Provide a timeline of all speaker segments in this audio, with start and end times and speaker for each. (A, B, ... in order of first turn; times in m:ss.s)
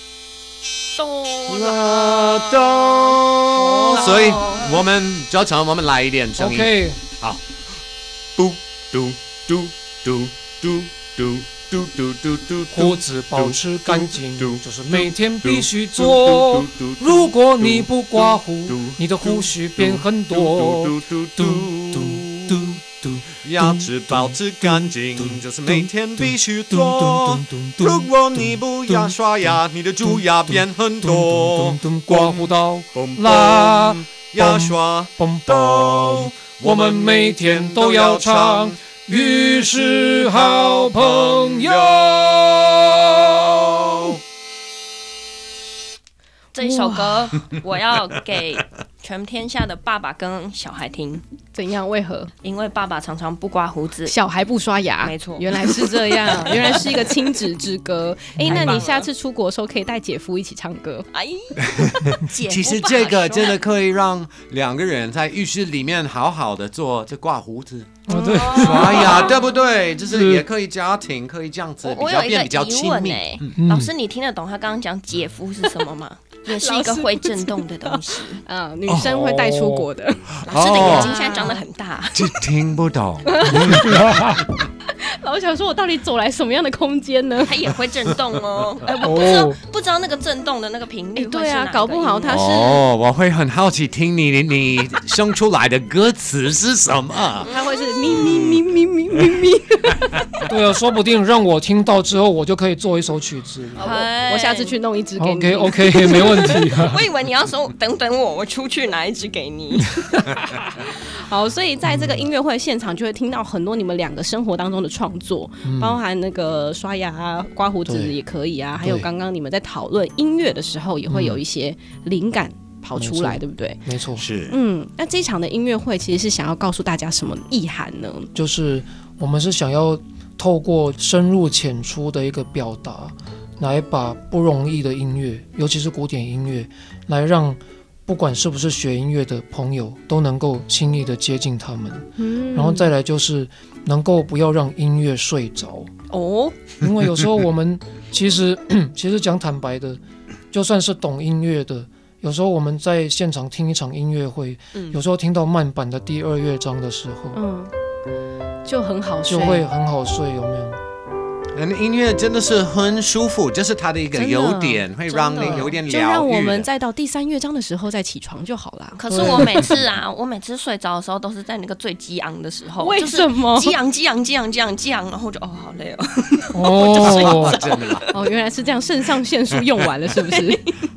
0:01.0-0:02.0 A
0:01.5-0:07.4 B
0:03.7-0:04.3 C
0:03.8-0:04.8 A
0:06.4-0:07.0 C
0:08.4-0:22.8 B
0:12.7-0:44.1 C
0:23.4-0:42.1 B
0:46.5-0:51.2 A
0:51.5-0:52.3 D
0:52.4-0:54.1 A
0:54.0-1:01.1 D
0:55.0-0:57.1 A
0:58.4-0:58.8 C
0:58.4-0:59.1 A
1:01.1-1:01.7 A
1:01.8-1:13.6 B
1:02.2-1:03.6 A
1:08.1-1:09.4 C
1:08.1-1:09.1 D
1:08.3-1:09.6 A
1:10.1-1:10.4 C
1:11.8-1:18.4 A
1:13.6-1:13.9 C
1:16.6-1:21.6 D
1:18.9-1:19.3 B
1:19.0-1:19.9 C
1:20.4-1:21.2 B
1:20.5-1:22.3 A
1:22.1-1:24.0 B
1:23.2-1:27.5 D
1:23.6-1:24.4 C
1:27.4-1:32.4 A
1:29.0-1:29.6 C
1:31.2-1:32.8 D
1:32.3-1:37.5 B
1:37.4-1:38.4 A
1:37.5-1:40.2 D
1:38.1-1:38.6 B
1:40.5-1:44.0 C
1:43.8-1:44.7 A
1:43.8-1:46.6 D
1:45.2-1:47.0 C
1:46.1-1:50.0 A
1:50.8-2:03.8 D
1:51.9-1:52.3 C
1:55.6-1:56.0 C
1:57.9-1:58.2 C
1:58.8-1:59.1 C
2:01.1-2:01.4 C
2:03.0-2:04.2 C
2:04.2-2:04.6 B
2:04.5-2:08.3 D
2:08.4-2:25.9 C
2:22.2-2:22.9 D
2:26.1-2:26.5 A
2:26.8-2:30.0 C
2:30.5-2:37.4 C
2:34.7-2:35.0 A
2:37.3-2:37.7 D
2:38.6-2:39.6 D
2:39.3-2:40.8 C
2:41.6-2:46.7 B
2:44.1-2:44.8 D
2:45.1-2:45.8 A
2:45.4-2:45.7 C
2:45.8-2:49.7 D
2:49.0-2:58.1 A
2:49.1-2:49.7 C
2:52.8-2:53.8 D
2:56.5-2:57.6 C
2:57.0-2:58.0 B
2:58.1-3:00.7 D